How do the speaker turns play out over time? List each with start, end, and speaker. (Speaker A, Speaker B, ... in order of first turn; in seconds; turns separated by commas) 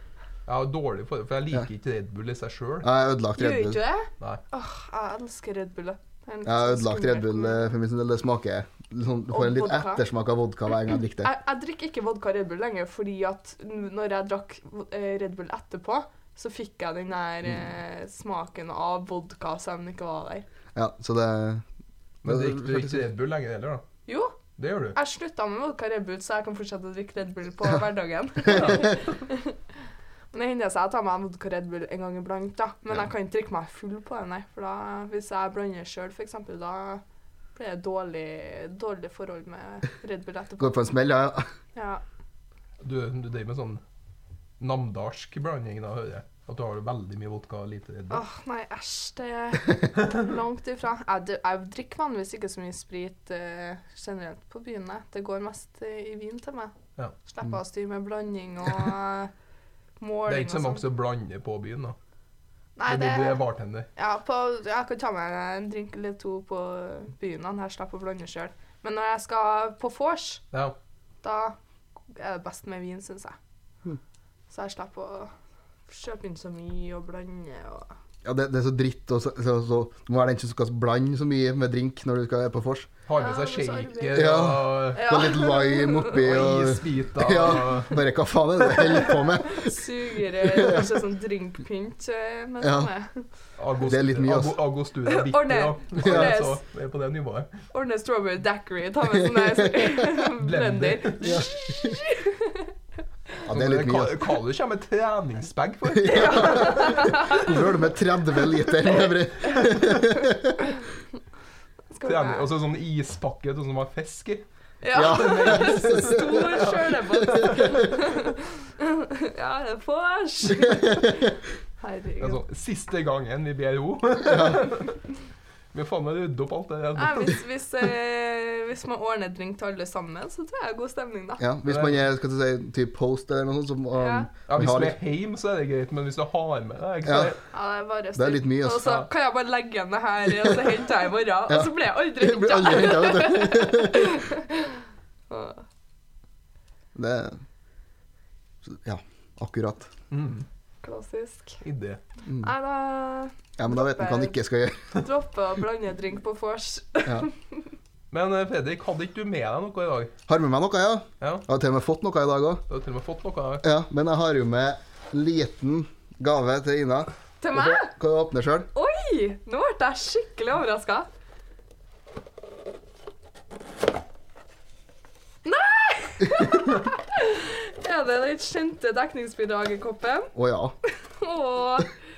Speaker A: 0.5-2.9, Speaker B: 2.8-3.8, Speaker C: 3.4-7.7, Speaker B: 6.5-11.3, Speaker C: 9.3-10.0, Speaker C: 11.2-20.4, Speaker B: 20.7-21.6, Speaker A: 22.2-23.8, Speaker B: 22.2-23.0, Speaker C: 24.1-24.4, Speaker A: 24.6-25.0, Speaker C: 24.9-29.6, Speaker A: 28.4-29.0, Speaker B: 28.5-28.8, Speaker C: 30.3-37.0, Speaker C: 37.5-40.9, Speaker B: 40.6-41.5, Speaker C: 41.7-42.0, Speaker A: 42.8-43.8, Speaker A: 44.6-48.2, Speaker C: 48.1-59.3, Speaker C: 60.0-60.8, Speaker A: 60.3-62.0, Speaker C: 62.8-63.4, Speaker A: 62.9-63.9, Speaker C: 63.9-70.4, Speaker C: 71.2-71.6, Speaker C: 72.1-73.4, Speaker C: 74.5-75.3, Speaker C: 75.9-77.9, Speaker B: 78.2-82.9, Speaker A: 83.1-85.2, Speaker C: 83.2-86.2, Speaker B: 84.1-90.9, Speaker A: 86.1-88.0, Speaker C: 89.2-93.2, Speaker B: 92.6-92.9, Speaker A: 93.6-97.5, Speaker B: 93.8-94.6, Speaker C: 95.0-96.6, Speaker B: 96.0-96.3, Speaker C: 97.7-102.7, Speaker B: 99.1-100.0, Speaker A: 100.4-101.4, Speaker B: 101.2-102.0, Speaker B: 103.5-104.2, Speaker A: 103.5-107.5, Speaker C: 106.0-107.5, Speaker B: 106.0-110.6, Speaker C: 111.9-112.5, Speaker A: 112.0-114.4, Speaker C: 114.8-122.4, Speaker B: 114.9-116.4, Speaker A: 115.0-117.5, Speaker B: 117.2-117.9, Speaker B: 120.7-121.1, Speaker A: 122.2-125.0, Speaker B: 124.2-124.7, Speaker A: 125.7-127.4, Speaker C: 127.0-131.5, Speaker B: 131.4-135.0, Speaker A: 131.7-132.0, Speaker C: 133.9-134.3, Speaker A: 134.5-137.4, Speaker B: 137.0-137.3, Speaker C: 137.5-145.6, Speaker B: 138.2-138.9, Speaker B: 141.5-144.2, Speaker B: 146.9-147.4, Speaker B: 148.7-149.9, Speaker A: 150.1-150.5, Speaker C: 150.8-151.6, Speaker A: 151.6-152.0, Speaker C: 152.3-154.3, Speaker B: 153.6-155.0, Speaker C: 154.9-157.6, Speaker A: 158.1-160.1, Speaker B: 160.3-162.6, Speaker A: 161.2-161.5, Speaker A: 162.7-163.7, Speaker B: 163.6-168.7, Speaker C: 167.4-167.9, Speaker C: 168.7-171.1, Speaker C: 175.4-180.3, Speaker B: 180.3-180.7, Speaker C: 181.0-181.9